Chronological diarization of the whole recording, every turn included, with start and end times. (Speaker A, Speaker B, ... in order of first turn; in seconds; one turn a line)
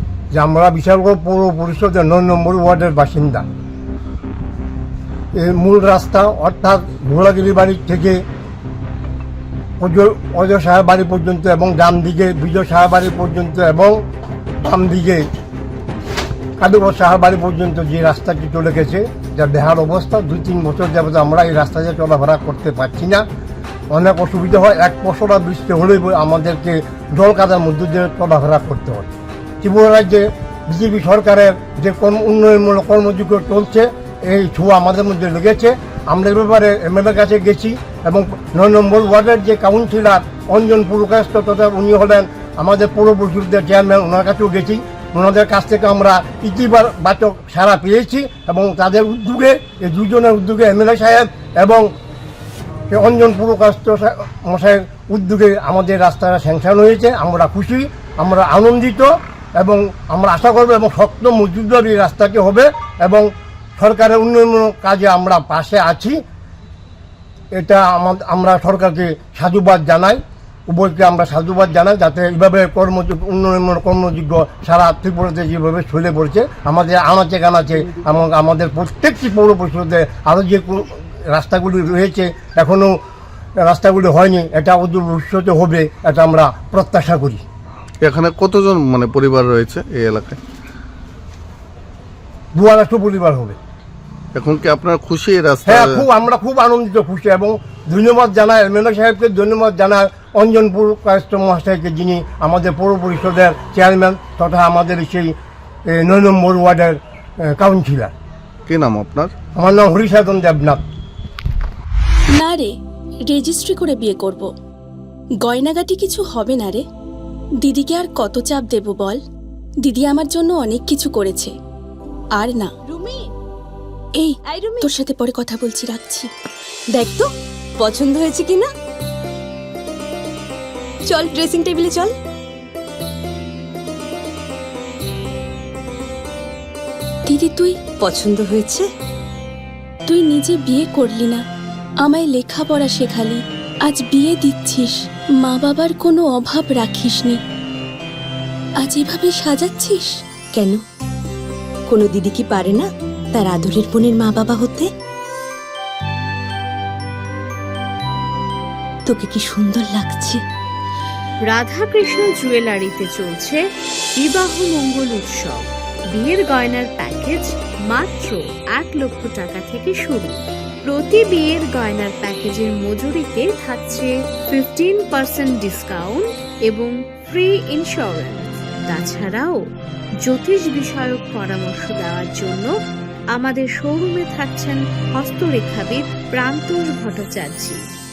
Speaker A: 0.3-3.5
Speaker A: 5.3-8.2
Speaker A: 9.8-14.0
Speaker A: 14.6-15.3
Speaker A: 16.6-23.2
Speaker A: 23.9-29.1
Speaker A: 29.6-51.9
Speaker A: 52.9-66.2
Speaker A: 67.5-83.0
Speaker A: 83.6-87.4
Speaker B: 88.0-90.4
Speaker A: 92.5-93.5
Speaker B: 94.3-96.0
Speaker A: 95.7-105.3
Speaker A: 105.9-108.1
Speaker B: 108.7-109.3
Speaker A: 109.5-110.8
Speaker C: 112.3-112.7
Speaker C: 113.3-114.5
Speaker C: 115.4-116.8
Speaker C: 117.6-119.2
Speaker C: 119.8-121.5
Speaker C: 122.4-122.7
Speaker D: 122.9-123.2
Speaker C: 124.2-126.3
Speaker D: 124.5-124.9
Speaker D: 126.9-127.3
Speaker D: 127.8-128.7
Speaker D: 131.1-132.1
Speaker C: 137.3-137.8
Speaker D: 138.0-138.8
Speaker C: 140.1-141.4
Speaker C: 142.0-147.4
Speaker C: 148.8-150.1
Speaker D: 151.9-154.8
Speaker D: 159.1-160.3
Speaker E: 161.5-163.6
Speaker E: 164.2-179.6
Speaker E: 180.2-182.7
Speaker E: 183.3-187.8